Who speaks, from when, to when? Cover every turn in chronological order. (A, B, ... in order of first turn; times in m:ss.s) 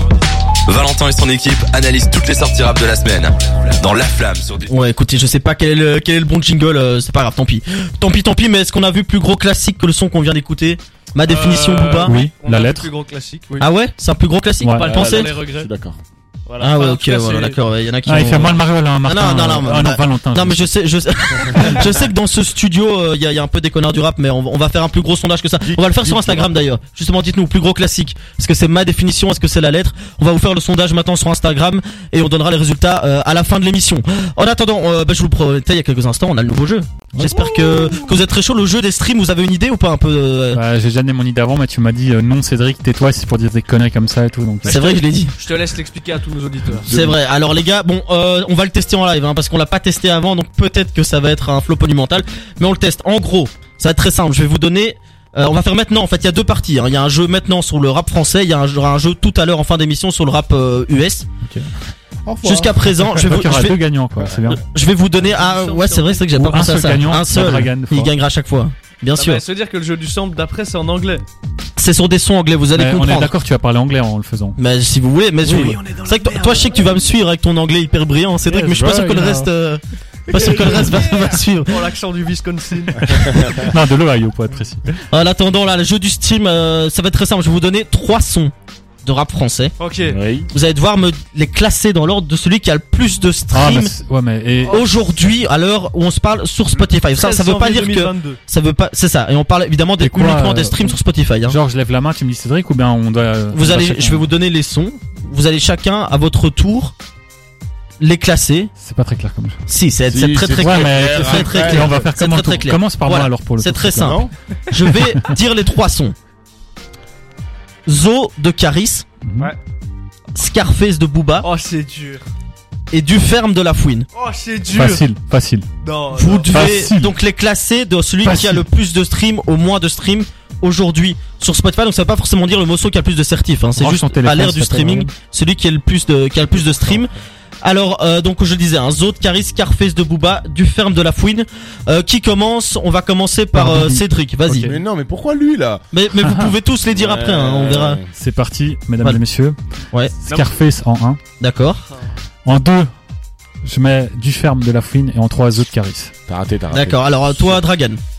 0:00.6-0:04.7 A
0:04.6-0:12.1 B
0:11.2-0:13.6 C
0:12.0-0:12.9 D
0:13.6-0:15.3 B
0:14.6-0:15.0 D
0:14.7-0:15.7 C
0:14.9-0:16.0 E
0:16.5-0:17.6 C
0:16.6-0:40.6 B
0:18.0-0:20.7 D
0:25.6-0:26.5 E
0:37.1-0:37.5 D
0:40.5-0:44.8 D
0:44.6-0:46.9 C
0:44.6-0:45.3 B
0:46.8-0:47.2 E
0:46.9-1:01.3 B
1:02.2-1:03.0 E
1:02.4-1:03.8 B
1:03.2-1:04.6 D
1:04.5-1:09.4 B
1:05.1-1:06.6 C
1:06.3-1:08.1 D
1:09.1-1:11.2 C
1:11.8-1:13.3 B
1:12.7-1:14.6 D
1:14.6-1:21.8 B
1:15.4-1:15.8 D
1:15.5-1:17.0 C
1:18.4-1:19.5 D
1:20.3-1:23.3 C
1:23.0-1:24.9 D
1:23.2-1:23.7 E
1:25.1-1:29.7 B
1:29.8-1:30.2 C
1:30.1-1:30.5 E
1:30.5-1:33.9 B
1:33.5-1:34.8 D
1:34.7-1:41.6 B
1:36.7-1:38.4 C
1:40.0-1:44.3 D
1:43.5-1:46.9 B
1:48.0-1:48.7 B
1:48.8-1:49.6 D
1:49.7-1:56.1 B
1:50.1-1:52.1 E
1:50.6-1:54.2 D
1:54.0-1:54.3 E
1:54.8-1:55.2 D
1:57.8-1:59.0 B
1:59.2-1:59.5 D
2:00.3-2:01.5 B
2:01.4-2:02.2 C
2:02.9-2:04.1 B
2:04.1-2:05.1 C
2:04.7-2:05.7 D
2:05.8-2:06.8 C
2:06.1-2:24.7 B
2:06.5-2:07.1 D
2:08.2-2:08.6 D
2:13.8-2:15.1 D
2:16.5-2:17.0 E
2:23.5-2:24.8 D
2:24.6-2:25.8 E
2:25.9-2:28.0 B
2:26.2-2:26.5 D
2:26.9-2:28.1 E
2:28.1-2:29.6 D
2:30.2-2:31.2 D
2:31.4-2:31.8 B
2:32.4-2:32.9 D
2:33.6-2:36.1 D
2:36.3-2:37.6 E
2:36.7-2:38.0 B